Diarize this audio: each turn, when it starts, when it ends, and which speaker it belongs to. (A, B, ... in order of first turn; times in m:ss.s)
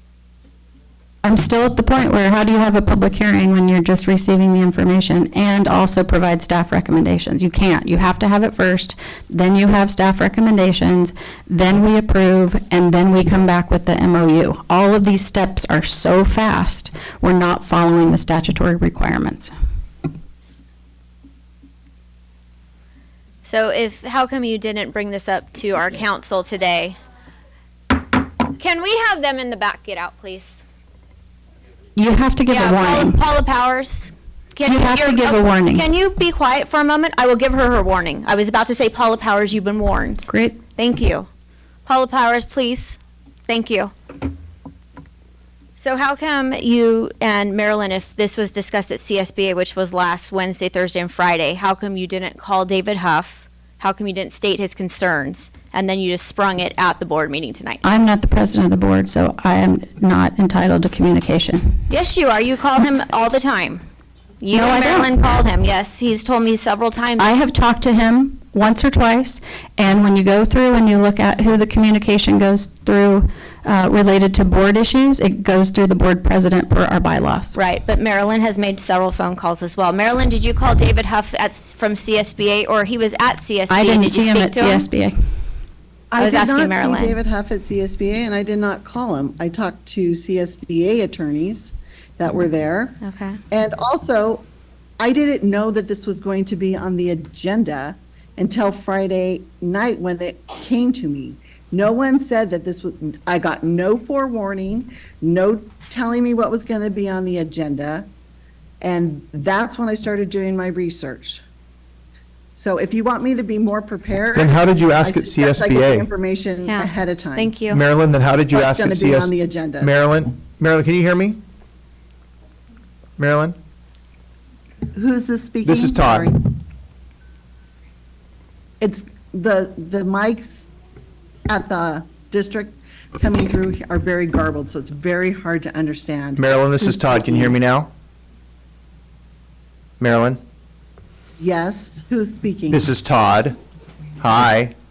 0:01.2-0:19.5 A
0:23.4-0:27.0 B
0:28.6-0:30.6 B
0:32.0-0:33.2 A
0:32.5-0:41.3 B
0:34.6-0:35.9 A
0:40.3-0:40.6 A
0:41.8-0:43.9 B
0:45.8-0:57.8 B
0:57.8-1:01.8 A
1:01.9-1:03.8 B
1:04.4-1:07.4 B
1:04.5-1:05.1 A
1:07.2-1:17.6 A
1:17.5-1:24.9 B
1:23.7-1:25.2 A
1:26.1-1:34.5 C
1:26.2-1:27.2 B
1:33.0-1:33.4 B
1:35.0-1:48.1 C
1:48.8-1:51.4 C
1:52.6-1:57.5 C
1:54.3-1:56.1 D
1:56.7-1:57.8 B
1:57.7-2:01.4 D
1:58.5-1:59.9 C
2:03.2-2:03.6 D
2:04.9-2:06.5 C
2:05.6-2:06.3 D
2:08.8-2:10.7 C
2:11.5-2:17.2 C
2:16.4-2:17.9 D
2:20.0-2:20.4 D
2:21.4-2:22.8 C
2:22.7-2:23.6 D
2:24.2-2:24.7 D